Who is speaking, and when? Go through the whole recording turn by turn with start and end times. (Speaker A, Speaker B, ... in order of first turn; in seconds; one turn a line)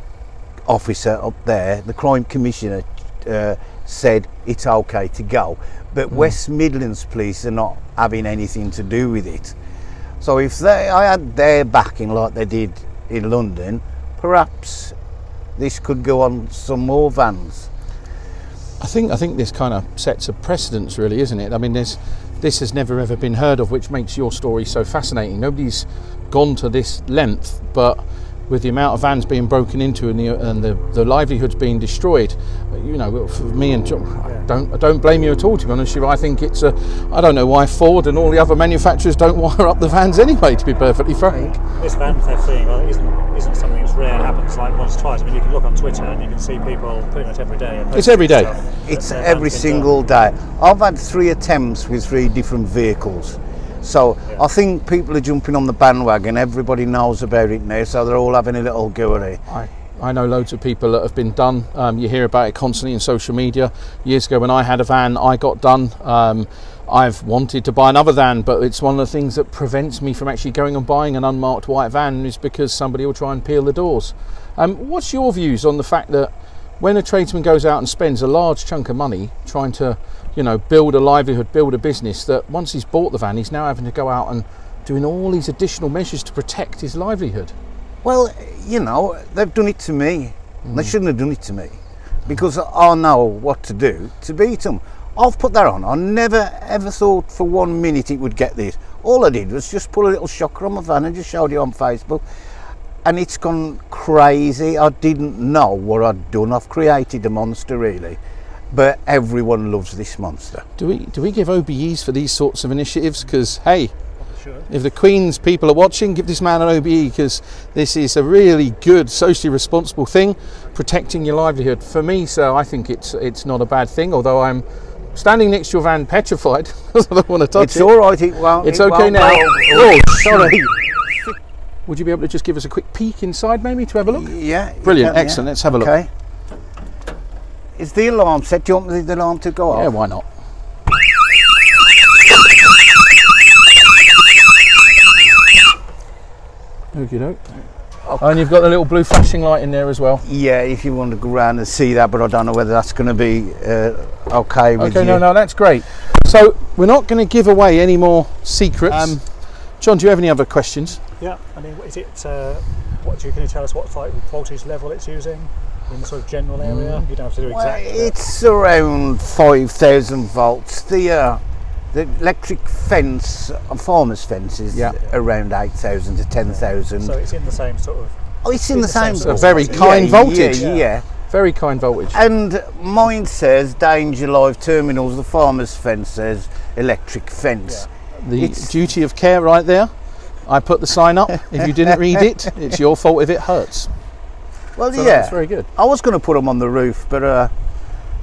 Speaker A: 0.7-9.6
Speaker B: 6.1-6.3
Speaker A: 10.2-14.9
Speaker A: 15.6-17.7
Speaker B: 18.8-41.6
Speaker C: 34.2-34.5
Speaker C: 41.6-49.9
Speaker B: 47.9-48.5
Speaker A: 48.8-59.4
Speaker B: 59.5-87.5
Speaker A: 88.0-102.2
Speaker B: 90.6-90.9
Speaker A: 103.0-108.2
Speaker A: 108.7-110.6
Speaker B: 110.8-113.9
Speaker C: 114.2-114.7
Speaker B: 114.7-127.9
Speaker A: 127.5-130.7
Speaker B: 128.6-130.6
Speaker B: 131.8-135.9
Speaker A: 134.1-136.1
Speaker A: 137.8-139.9
Speaker B: 139.7-140.3
Speaker B: 146.9-147.4
Speaker B: 148.0-150.2
Speaker A: 150.2-155.2
Speaker B: 154.8-161.0
Speaker A: 158.9-159.2
Speaker C: 161.2-168.2
Speaker B: 166.6-167.1
Speaker A: 167.4-171.4
Speaker A: 171.9-177.1
Speaker B: 174.7-175.0
Speaker C: 176.9-180.9
Speaker A: 178.4-181.1
Speaker B: 179.1-182.2
Speaker A: 182.1-188.8
Speaker B: 188.1-193.9
Speaker A: 194.8-197.5
Speaker B: 194.9-195.7